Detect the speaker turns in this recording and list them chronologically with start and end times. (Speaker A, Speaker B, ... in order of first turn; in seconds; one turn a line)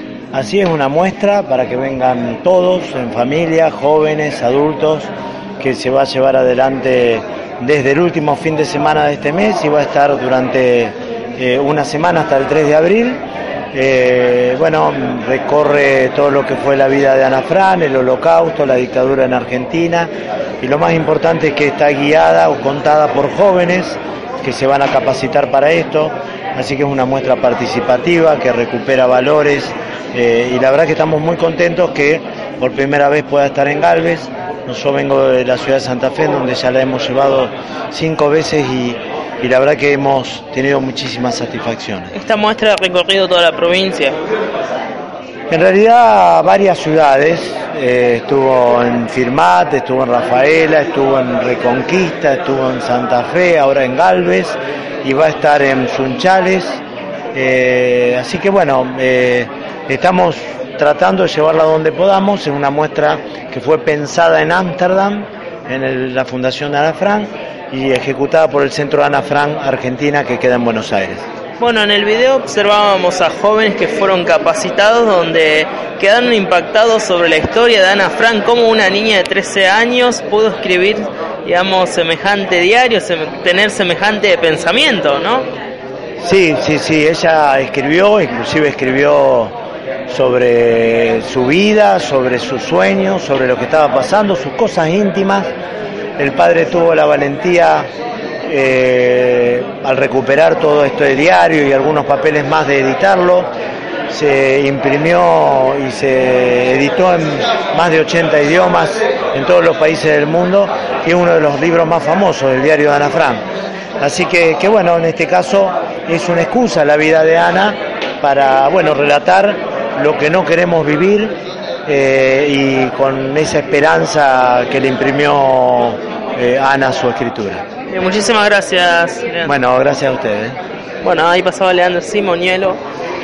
Speaker A: 0.3-13.2
Speaker A: 13.7-20.1
Speaker A: 20.6-42.1
Speaker B: 42.1-44.1
Speaker A: 45.5-56.8
Speaker A: 57.3-71.2
Speaker B: 71.6-85.5
Speaker A: 86.2-89.5
Speaker A: 90.1-95.5
Speaker A: 96.2-97.9
Speaker A: 98.5-103.5
Speaker A: 104.1-113.4
Speaker A: 114.0-121.3
Speaker A: 121.9-127.6
Speaker B: 127.9-129.5
Speaker A: 129.4-130.6
Speaker B: 131.0-132.8